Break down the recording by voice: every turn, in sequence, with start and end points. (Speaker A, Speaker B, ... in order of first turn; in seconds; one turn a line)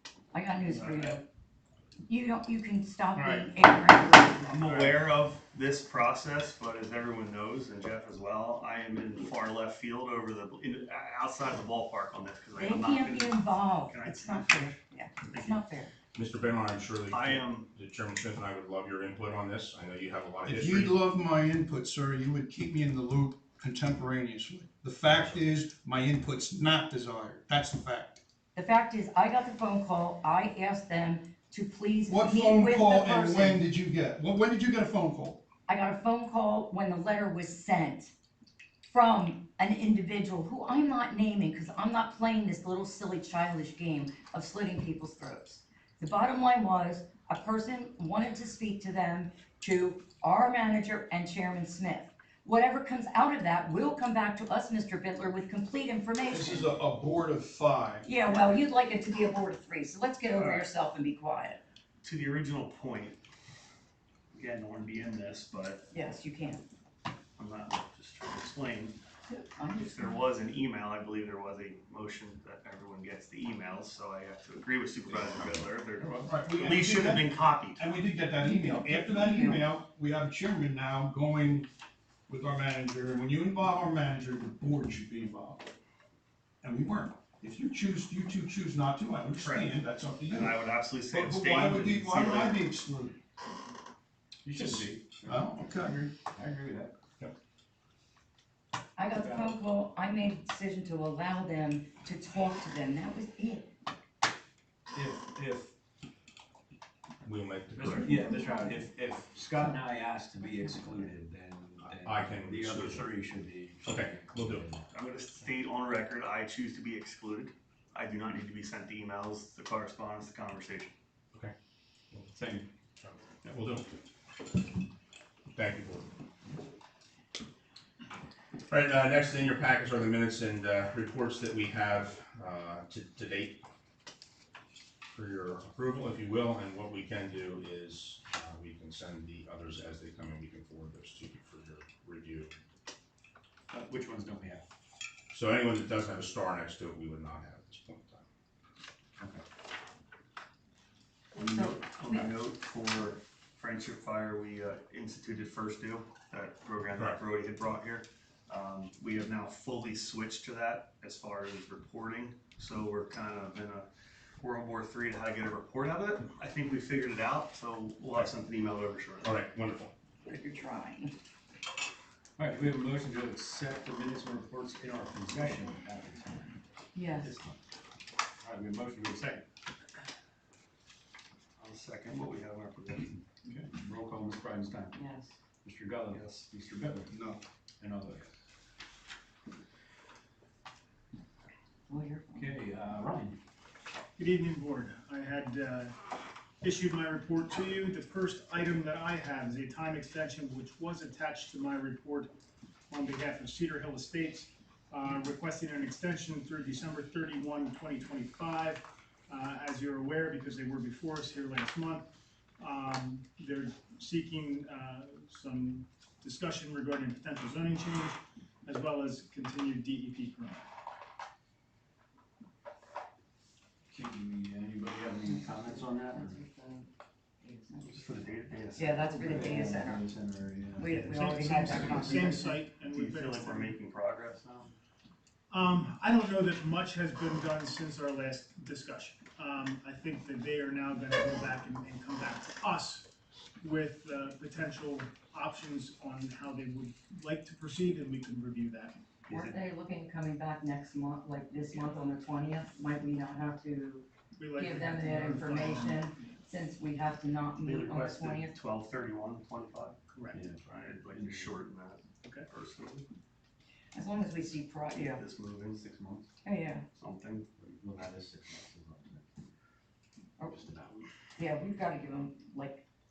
Speaker A: 0.3-1.2
Speaker B: 0.7-1.2
Speaker A: 2.1-4.6
Speaker C: 4.4-4.9
Speaker B: 4.5-15.6
Speaker A: 12.6-15.9
Speaker D: 16.1-21.0
Speaker B: 17.1-17.7
Speaker E: 20.4-28.2
Speaker A: 28.6-33.7
Speaker E: 32.1-35.4
Speaker A: 35.7-38.1
Speaker A: 38.9-56.7
Speaker E: 56.3-58.1
Speaker A: 58.0-61.6
Speaker B: 60.3-60.7
Speaker B: 62.0-63.2
Speaker B: 64.3-65.9
Speaker A: 65.9-66.6
Speaker B: 67.4-69.0
Speaker A: 69.3-70.2
Speaker B: 69.8-77.8
Speaker D: 75.1-75.7
Speaker E: 76.3-81.7
Speaker A: 78.4-79.6
Speaker E: 82.3-85.7
Speaker E: 86.6-93.2
Speaker B: 89.4-92.6
Speaker C: 94.5-96.9
Speaker E: 94.5-96.0
Speaker A: 99.0-103.7
Speaker C: 99.1-99.6
Speaker C: 104.9-105.7
Speaker D: 107.2-108.2
Speaker C: 107.8-114.8
Speaker A: 107.9-108.9
Speaker A: 110.4-110.9
Speaker D: 111.8-113.1
Speaker D: 113.8-114.7
Speaker B: 114.9-120.9
Speaker C: 122.3-122.7
Speaker D: 123.0-123.9
Speaker D: 125.5-126.1
Speaker D: 128.7-133.6
Speaker D: 135.1-142.6
Speaker C: 143.7-144.6
Speaker D: 145.3-148.2
Speaker A: 151.3-152.3
Speaker B: 151.3-163.9
Speaker B: 164.4-169.3
Speaker D: 169.2-169.9
Speaker A: 170.3-171.1
Speaker C: 172.4-176.6
Speaker A: 176.9-177.3
Speaker C: 177.2-177.6
Speaker C: 178.4-179.4
Speaker B: 181.6-183.2
Speaker C: 183.4-185.0
Speaker A: 184.9-185.3
Speaker C: 185.6-187.2
Speaker B: 186.1-186.5
Speaker E: 187.1-187.4
Speaker C: 187.8-188.3
Speaker A: 191.9-192.6
Speaker C: 192.3-193.4
Speaker F: 194.2-195.9
Speaker F: 196.6-202.3
Speaker F: 202.9-212.1
Speaker F: 212.6-220.7
Speaker C: 223.9-226.4
Speaker A: 225.2-226.9
Speaker A: 227.4-228.0
Speaker B: 227.8-229.1
Speaker A: 228.8-230.1
Speaker C: 229.0-232.4
Speaker A: 230.8-232.6
Speaker F: 231.2-233.7
Speaker B: 232.8-234.7
Speaker F: 235.5-243.1
Speaker F: 243.6-248.9
Speaker B: 249.3-249.6
Speaker A: 249.3-258.5
Speaker F: 254.4-256.1
Speaker B: 257.6-260.0
Speaker F: 260.1-260.4
Speaker C: 260.3-261.6
Speaker B: 260.7-263.1
Speaker A: 263.9-265.2
Speaker B: 264.9-266.2
Speaker C: 265.8-266.2
Speaker A: 266.4-266.9
Speaker B: 267.0-267.5
Speaker C: 267.6-269.2
Speaker C: 270.4-271.1
Speaker A: 271.4-272.8